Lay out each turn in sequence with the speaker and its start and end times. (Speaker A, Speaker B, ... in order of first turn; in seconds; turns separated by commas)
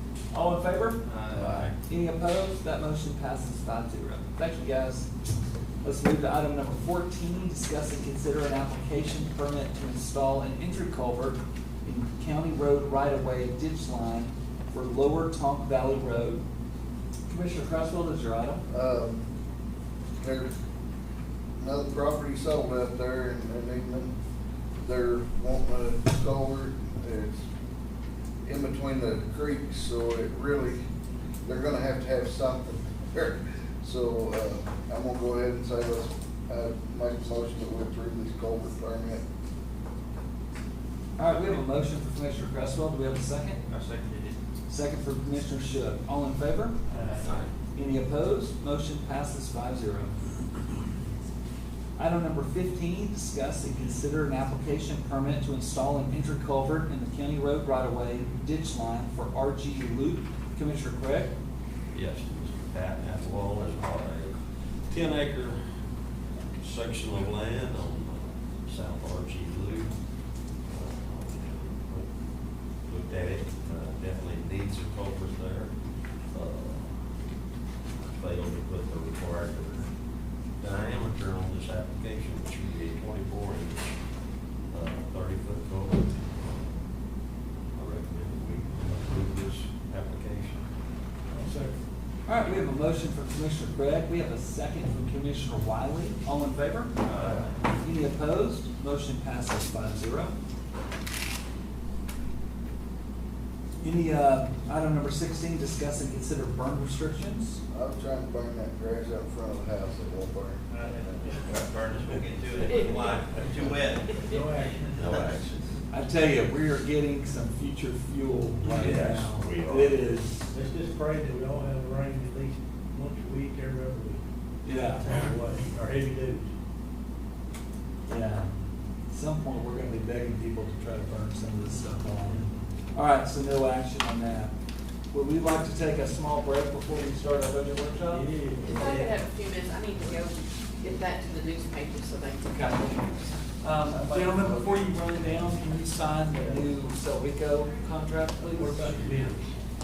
Speaker A: 0.3-5.1, Speaker B: 1.1-1.6, Speaker C: 1.1-1.7, Speaker A: 5.8-16.4, Speaker A: 17.3-18.6, Speaker D: 18.7-19.2, Speaker D: 20.2-20.5, Speaker D: 21.6-24.1, Speaker D: 24.8-27.4, Speaker D: 28.4-30.9, Speaker D: 31.4-39.2, Speaker A: 41.2-43.6, Speaker B: 43.7-44.4, Speaker A: 44.7-46.8, Speaker B: 46.9-47.5, Speaker C: 47.2-47.5, Speaker A: 47.7-50.1, Speaker A: 52.0-61.3, Speaker C: 61.9-65.6, Speaker C: 66.6-69.9, Speaker C: 70.6-72.1, Speaker C: 72.8-75.7, Speaker C: 76.3-77.0, Speaker C: 78.1-79.9, Speaker C: 80.6-83.9, Speaker C: 84.7-86.8, Speaker C: 87.7-90.6, Speaker E: 91.3-91.8, Speaker A: 92.2-97.0, Speaker C: 97.0-97.5, Speaker A: 97.8-100.4, Speaker A: 103.8-107.6, Speaker D: 107.7-111.4, Speaker B: 110.7-114.8, Speaker C: 111.5-112.8, Speaker F: 112.7-113.3, Speaker F: 114.0-114.3, Speaker E: 114.2-115.2, Speaker C: 114.9-115.7, Speaker A: 115.9-120.5, Speaker C: 118.6-119.9, Speaker E: 120.5-124.2, Speaker A: 124.6-125.3, Speaker E: 125.0-126.5, Speaker A: 128.1-128.5, Speaker A: 129.1-134.5, Speaker A: 135.1-138.3, Speaker E: 138.1-139.1, Speaker F: 138.6-143.1, Speaker A: 142.5-149.2, Speaker D: 143.9-144.9, Speaker E: 146.3-146.6, Speaker E: 148.5-149.5